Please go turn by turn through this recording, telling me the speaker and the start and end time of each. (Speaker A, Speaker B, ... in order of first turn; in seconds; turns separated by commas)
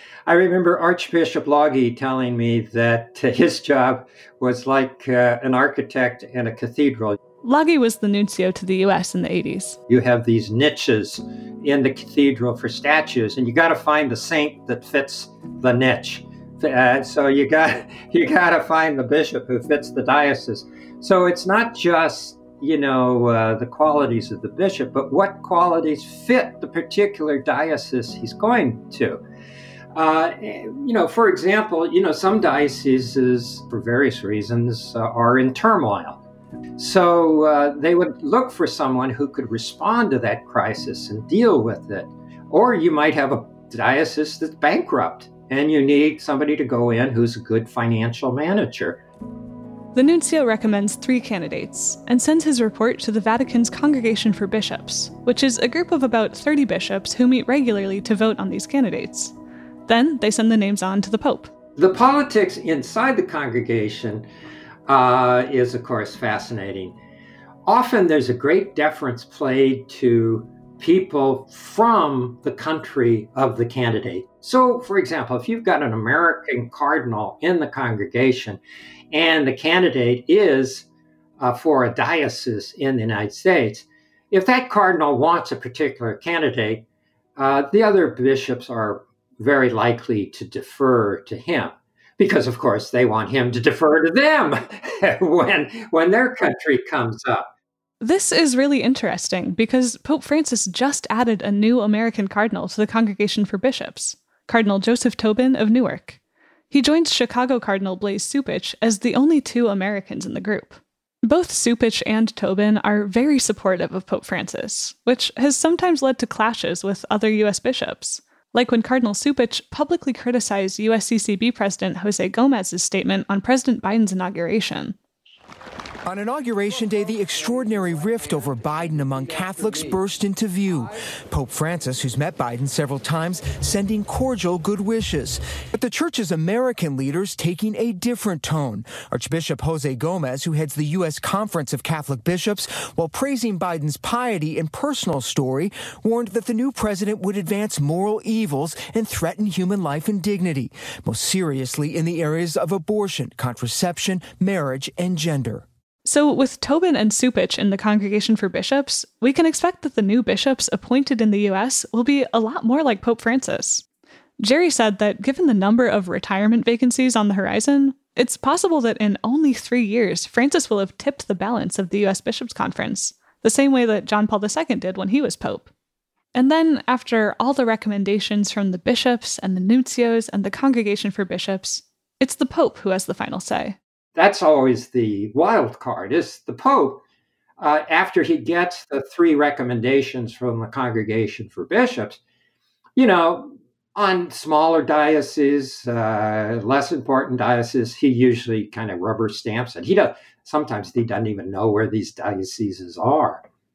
Speaker A: 0.2-7.2, Speaker B: 7.4-9.8, Speaker A: 9.9-29.2, Speaker A: 29.9-36.2, Speaker A: 36.8-49.0, Speaker B: 49.9-59.3, Speaker B: 59.9-61.5, Speaker A: 61.8-64.3, Speaker A: 64.9-67.0, Speaker A: 67.7-78.6, Speaker A: 79.1-80.9, Speaker A: 81.4-86.8, Speaker A: 87.4-97.5, Speaker B: 98.0-106.2, Speaker B: 106.7-125.0, Speaker C: 126.0-155.6, Speaker B: 156.0-163.8, Speaker B: 164.4-175.7, Speaker B: 176.3-183.8, Speaker A: 184.1-187.0, Speaker A: 187.6-192.2, Speaker A: 192.9-203.4